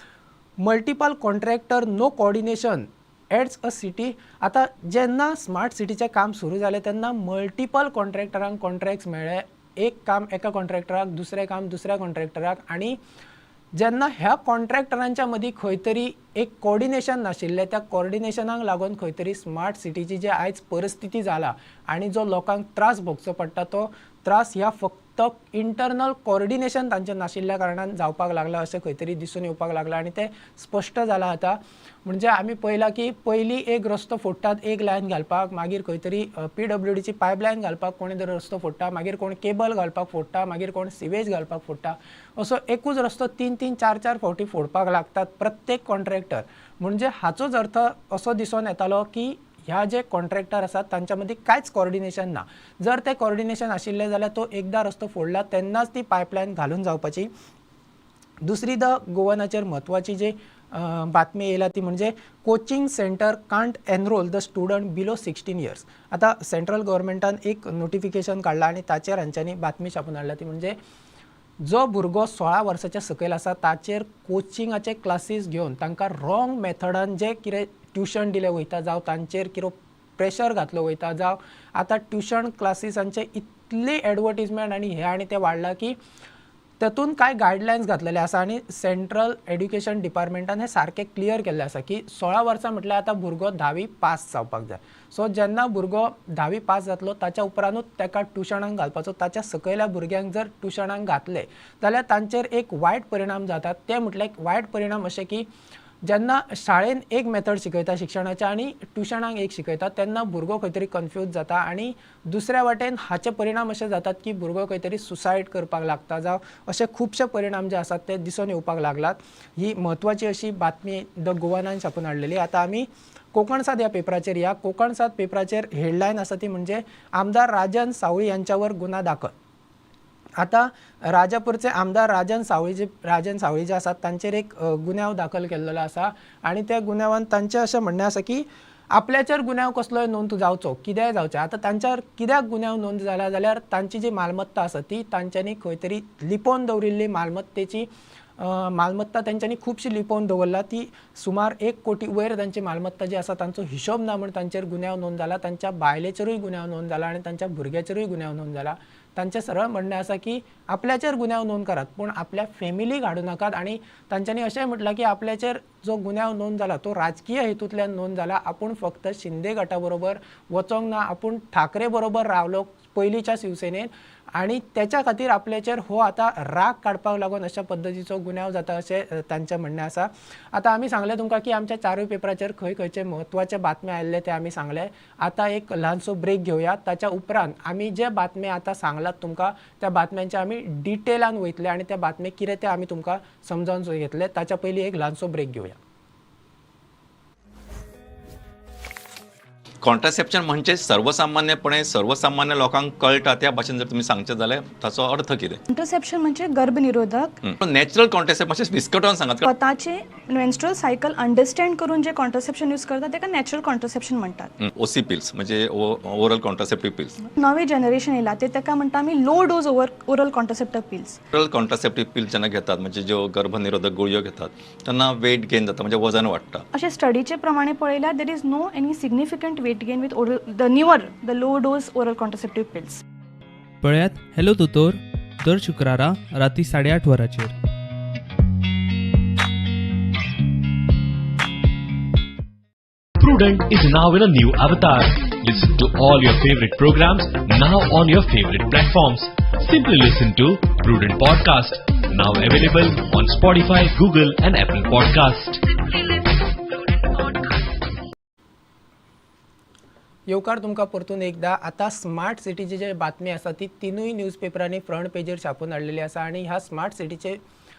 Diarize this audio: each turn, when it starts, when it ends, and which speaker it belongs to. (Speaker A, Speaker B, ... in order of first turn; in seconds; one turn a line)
Speaker A: 0.6-13.0
Speaker A: 13.8-57.3
Speaker A: 58.4-70.8
Speaker A: 71.6-86.0
Speaker A: 86.8-105.5
Speaker A: 106.0-129.3
Speaker A: 130.4-195.8
Speaker B: 199.8-205.6
Speaker C: 205.7-207.4
Speaker B: 207.4-209.5
Speaker C: 209.4-214.5
Speaker B: 214.6-217.2
Speaker C: 217.2-221.2
Speaker B: 221.3-226.7
Speaker C: 226.7-233.0
Speaker D: 233.8-237.6
Speaker E: 243.2-255.7
Speaker A: 260.3-267.4